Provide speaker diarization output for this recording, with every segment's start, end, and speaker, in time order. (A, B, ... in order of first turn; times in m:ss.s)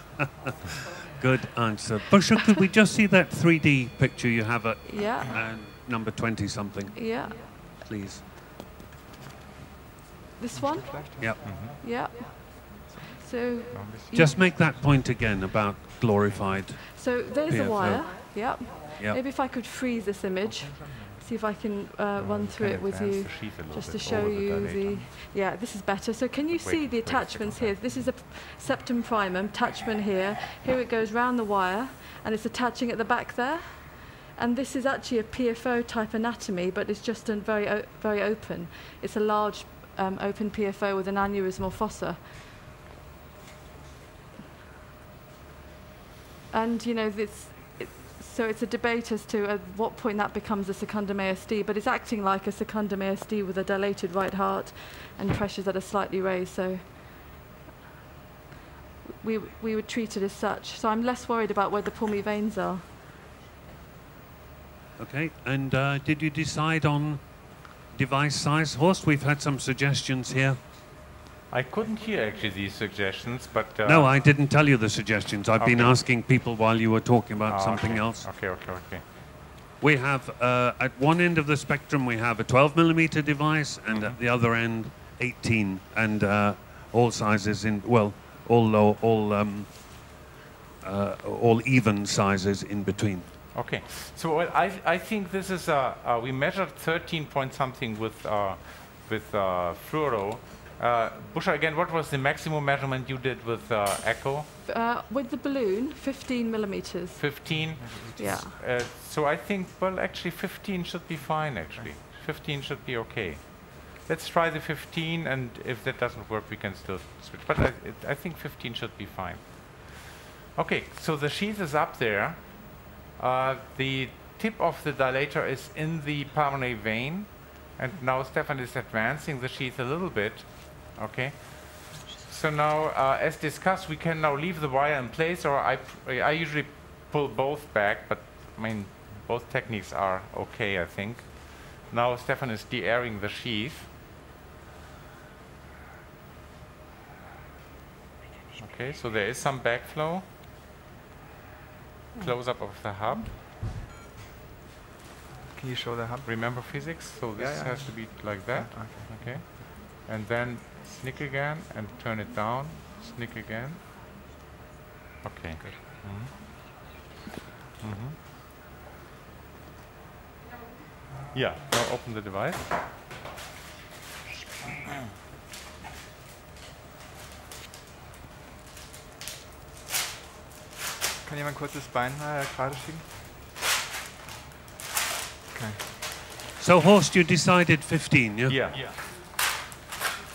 0:01.1-0:08.2 A
0:04.8-0:05.4 B
0:06.9-0:07.8 B
0:10.4-0:14.4 B
0:10.5-0:11.7 C
0:11.2-0:11.7 A
0:11.4-0:11.8 D
0:13.7-0:14.0 D
0:14.1-0:19.2 A
0:16.8-0:42.2 B
0:20.4-0:21.2 C
0:22.2-0:23.5 C
0:22.2-0:25.1 D
0:26.5-0:28.1 D
0:46.5-0:57.4 B
0:59.2-1:02.8 B
1:05.0-1:10.6 A
1:11.5-1:14.1 D
1:13.8-1:18.3 A
1:15.6-1:16.0 D
1:17.4-1:19.4 D
1:19.8-1:30.3 A
1:23.9-1:24.2 D
1:30.8-1:33.3 A
1:33.5-1:44.5 D
1:44.6-1:47.5 B
1:47.2-2:23.9 D
1:47.5-1:48.5 C
1:48.2-1:48.6 B
2:28.6-2:30.3 D
2:32.2-2:33.4 D
2:35.5-2:36.3 C
2:36.2-2:43.8 D
2:37.4-2:39.6 C
2:45.2-2:46.3 D
2:47.8-2:48.2 D
2:51.3-2:52.7 D
3:01.2-3:03.1 C
3:05.5-3:05.8 C
3:06.6-3:08.6 A
3:08.5-3:09.0 D